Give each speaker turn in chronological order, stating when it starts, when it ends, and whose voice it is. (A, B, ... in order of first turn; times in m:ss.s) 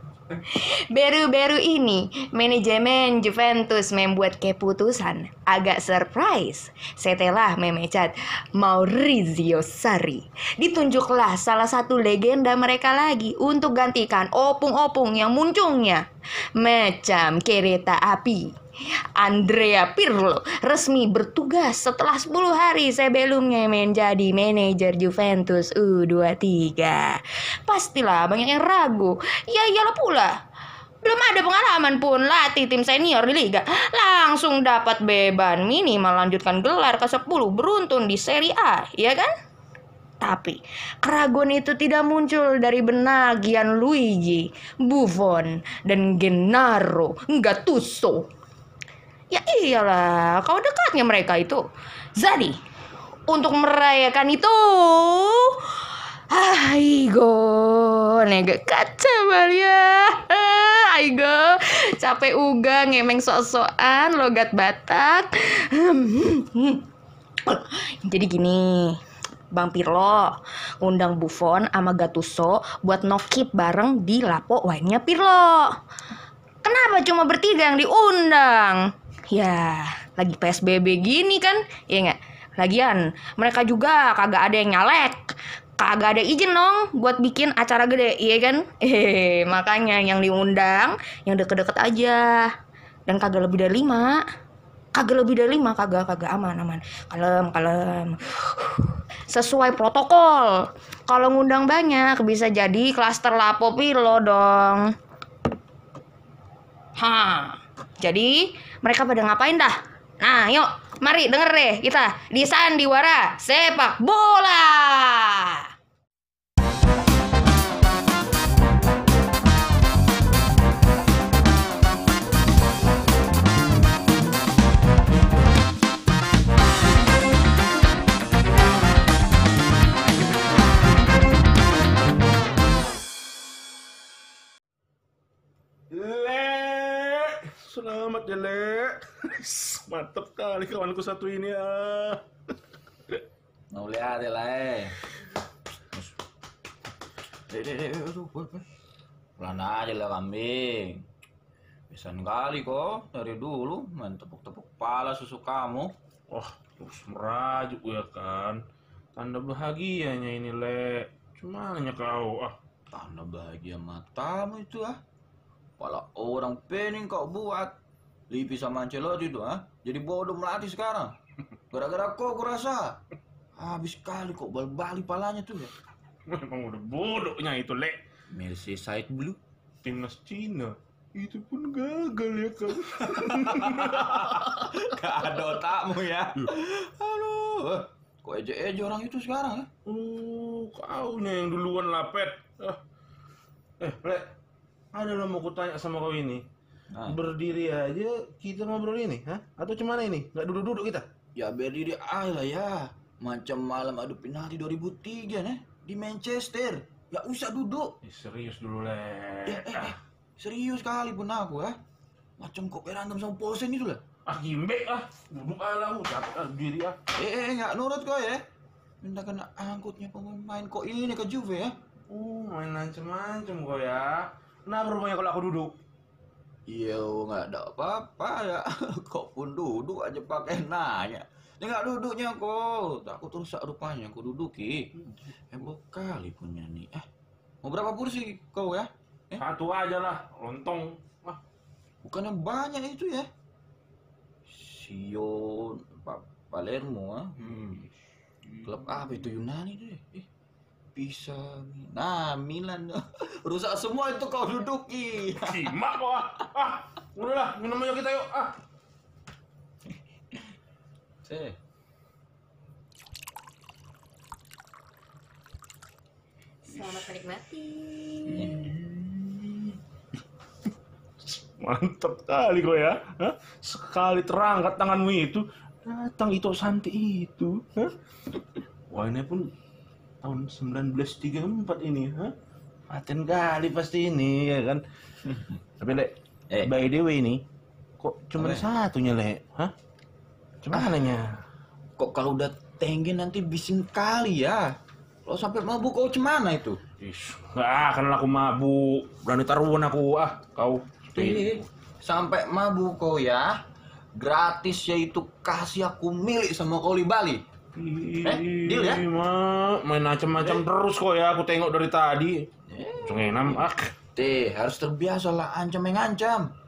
0:00.3-0:16.0 A
0:16.6-0:18.5 A
0:19.1-0:30.3 A
0:31.0-0:39.3 A
0:40.2-0:48.2 A
0:49.3-0:51.6 A
0:52.2-0:52.6 A
0:53.3-1:06.8 A
1:07.4-1:09.0 A
1:09.5-1:15.7 A
1:16.6-1:18.8 A
1:19.3-1:25.2 A
1:25.8-1:32.5 A
1:33.1-1:34.2 A
1:34.9-1:44.9 A
1:47.0-1:55.7 A
2:15.9-2:22.2 B
2:23.7-2:25.0 C
2:27.5-2:28.6 C
2:29.4-2:31.0 C
2:31.9-2:35.9 C
2:36.3-2:38.6 B
2:39.1-2:42.6 B
2:42.9-2:44.9 C
2:45.8-2:47.7 C
2:48.3-2:51.1 C
2:51.7-2:53.0 C
2:53.6-2:55.7 C
2:56.3-2:58.0 B
2:58.3-2:59.4 C
2:59.8-3:04.3 B
3:03.1-3:09.7 C
3:09.8-3:12.8 B
3:13.8-3:14.3 B
3:14.9-3:16.4 B
3:16.9-3:17.2 C
3:17.0-3:21.0 B
3:21.4-3:27.9 C
3:28.0-3:29.9 B
3:29.4-3:31.7 C
3:32.4-3:34.0 C
3:34.2-3:37.0 B
3:37.2-3:38.4 C
3:39.0-3:41.7 C
3:42.1-3:45.7 B
3:46.7-3:54.9 C
3:55.5-3:57.0 C
3:57.6-3:59.4 C
3:59.4-4:01.4 B
4:02.0-4:03.3 C
4:04.5-4:07.8 C
4:08.6-4:10.2 C
4:10.9-4:15.7 C
4:15.4-4:18.6 B
4:21.2-4:21.6 C
4:26.6-4:28.7 A
4:28.3-4:28.7 C
4:31.2-4:37.9 B
4:38.9-4:39.5 B
4:40.2-4:42.3 B
4:42.9-4:44.8 B
4:45.2-4:45.5 C
4:45.8-4:47.4 B
4:48.0-4:49.7 B
4:48.4-4:48.6 C
4:50.6-4:51.4 B
4:50.7-4:51.0 C
4:52.0-4:54.7 C
4:55.2-4:56.8 C
4:57.0-5:01.5 B
5:01.1-5:03.5 C
5:04.2-5:07.4 C
5:07.7-5:12.4 B
5:08.2-5:09.0 C
5:12.7-5:16.5 C
5:13.0-5:13.9 B